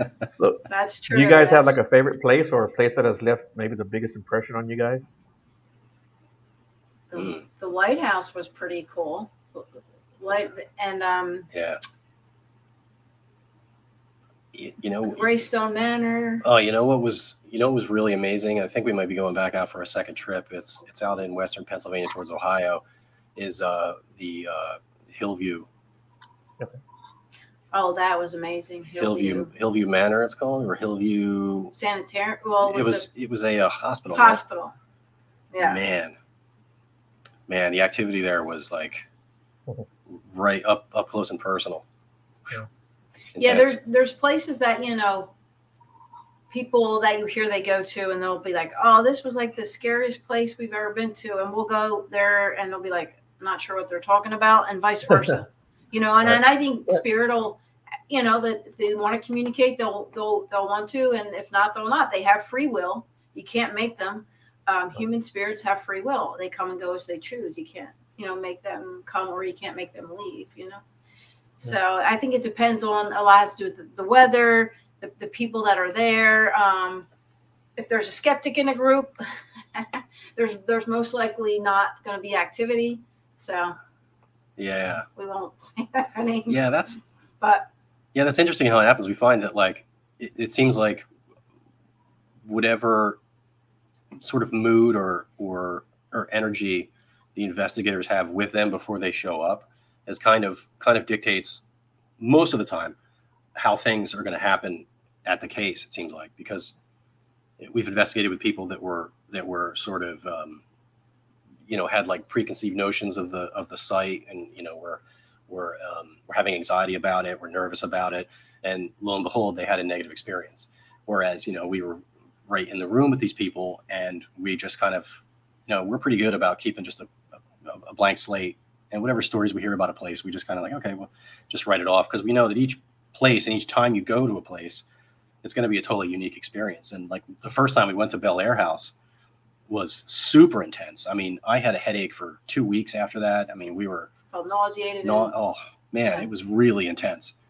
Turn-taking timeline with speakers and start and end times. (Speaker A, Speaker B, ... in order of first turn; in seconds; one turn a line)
Speaker A: 0.2-5.2
Speaker B: 0.7-1.8
Speaker B: 7.1-11.5
Speaker C: 7.1-7.4
Speaker C: 11.5-11.8
Speaker C: 14.5-15.3
Speaker B: 15.0-16.4
Speaker C: 16.4-22.8
Speaker C: 23.4-25.7
Speaker B: 27.7-29.5
Speaker C: 29.0-31.7
Speaker B: 31.7-33.1
Speaker C: 32.6-34.4
Speaker B: 34.1-34.8
Speaker B: 35.5-35.8
Speaker C: 35.6-36.1
Speaker C: 37.5-39.0
Speaker C: 40.1-41.9
Speaker C: 43.4-43.8
Speaker B: 43.4-45.3
Speaker B: 46.5-57.6
Speaker A: 56.2-57.0
Speaker B: 58.1-70.8
Speaker B: 71.6-77.1
Speaker B: 77.8-79.2
Speaker B: 79.7-83.8
Speaker C: 84.6-85.1
Speaker B: 85.1-86.7
Speaker C: 86.5-87.0
Speaker B: 87.4-87.7
Speaker C: 88.1-91.1
Speaker C: 92.4-93.2
Speaker C: 94.2-101.6
Speaker C: 102.2-103.0
Speaker C: 103.5-106.8
Speaker C: 107.6-110.6
Speaker C: 111.7-127.1
Speaker C: 127.6-134.8
Speaker C: 135.4-138.9
Speaker C: 139.7-144.1
Speaker B: 144.3-145.3
Speaker C: 145.0-147.3